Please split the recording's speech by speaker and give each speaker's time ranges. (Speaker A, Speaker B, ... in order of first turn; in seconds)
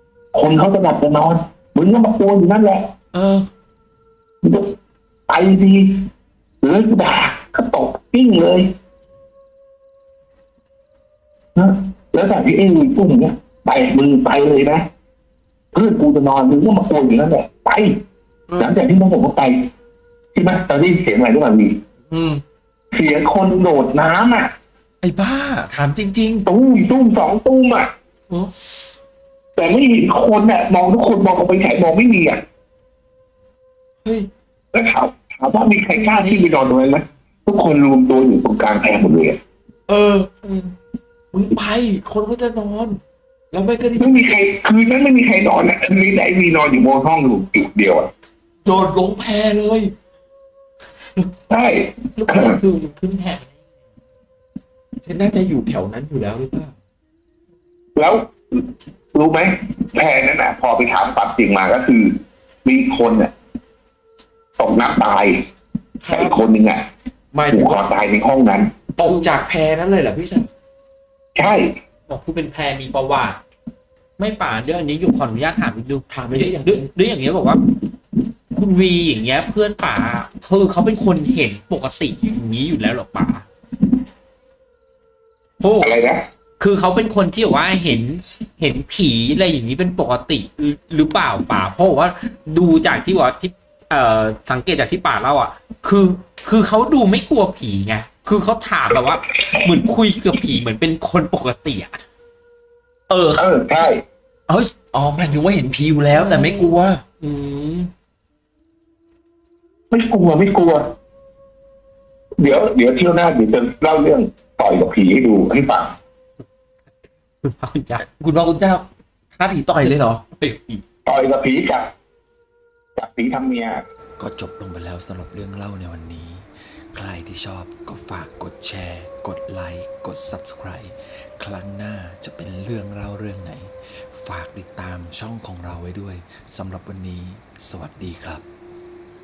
Speaker A: 0.3-2.9, 4.4-4.8, 5.3-6.0, 6.6-8.7, 11.6-14.8, 15.7-18.0, 18.6-19.7, 20.3-21.8, 22.9-24.5, 26.5-27.9, 29.6-32.4, 34.7-39.4, 44.0-48.1, 51.5-52.6, 58.0-63.3, 64.6-65.5, 66.1-66.9, 67.5-68.8, 71.3-71.7, 85.8-86.2, 103.3-104.0, 109.9-110.9, 112.4-116.0, 121.1-121.9, 123.0-123.8
Speaker B: 3.1-3.5, 18.5-18.8, 22.1-22.4, 25.0-26.5, 34.0-34.3, 39.9-40.7, 41.3-43.0, 43.5-44.4, 48.7-49.9, 55.0-56.7, 66.0-66.4, 67.3-67.8, 69.0-70.5, 76.1-76.9, 103.1-103.5, 104.5-107.0, 118.0-120.2
Speaker C: 52.2-53.5, 69.0-69.3, 72.1-73.4, 74.2-77.7, 78.5-83.5, 85.6-86.0, 86.6-102.0, 106.1-107.9, 117.4-118.0, 119.8-120.8
Speaker D: 124.2-138.5